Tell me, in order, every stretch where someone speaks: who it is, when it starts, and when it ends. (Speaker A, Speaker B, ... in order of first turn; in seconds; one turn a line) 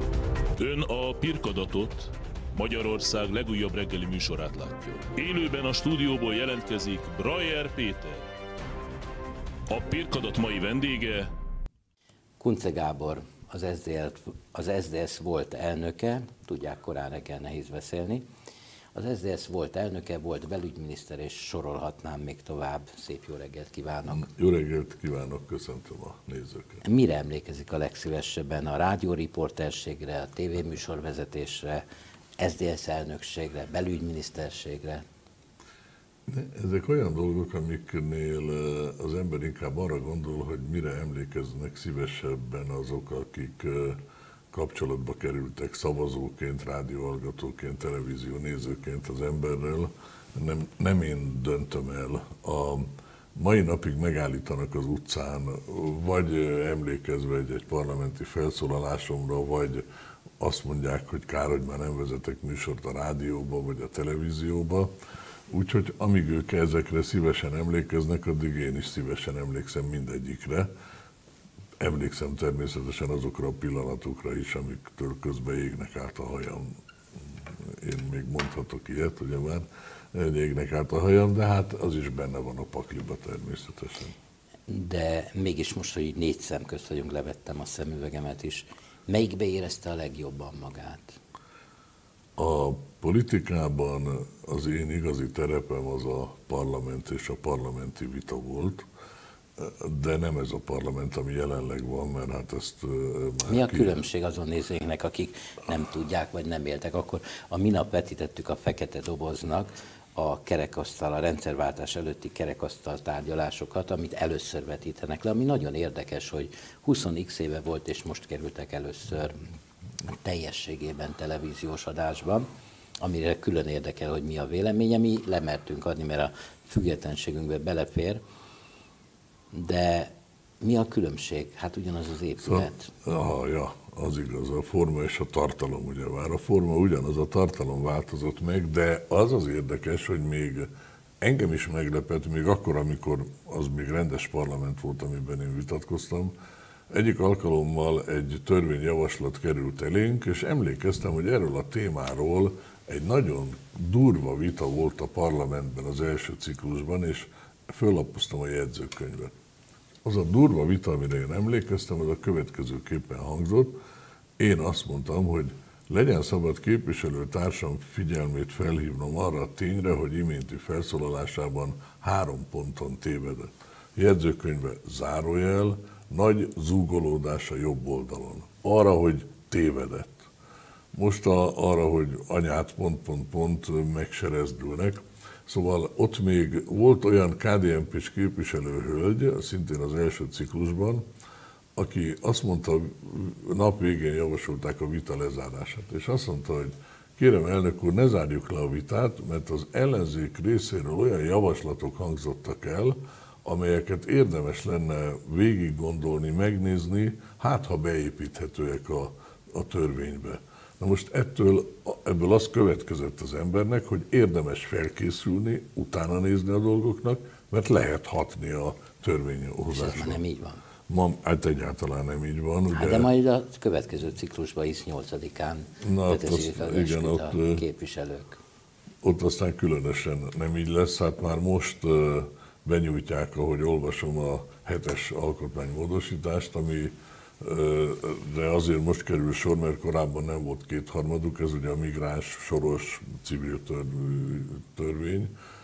Speaker A: 0.6-8.2
Speaker A: 9.7-11.3
Speaker B: 12.4-18.2
Speaker B: 18.9-24.3
Speaker C: 24.1-26.8
Speaker B: 26.8-31.8
Speaker B: 32.4-35.0
Speaker C: 36.3-44.0
Speaker C: 44.5-59.8
Speaker C: 60.4-64.9
Speaker C: 65.5-70.7
Speaker C: 71.8-76.8
Speaker C: 77.6-84.1
Speaker B: 84.7-91.2
Speaker C: 92.4-98.8
Speaker C: 99.6-104.0
Speaker B: 103.5-119.5
Speaker B: 120.1-122.5
Speaker B: 123.0-128.2
Speaker B: 129.5-132.9
Speaker C: 132.4-140.7
Speaker C: 141.2-146.3
Speaker C: 146.9-159.3
Speaker C: 160.0-163.8
Speaker C: 164.4-180.2
Speaker C: 180.9-191.0
Speaker C: 191.8-220.2
Speaker B: 219.7-220.6
Speaker C: 220.9-223.1
Speaker B: 222.7-228.4
Speaker C: 225.8-227.6
Speaker C: 229.0-245.3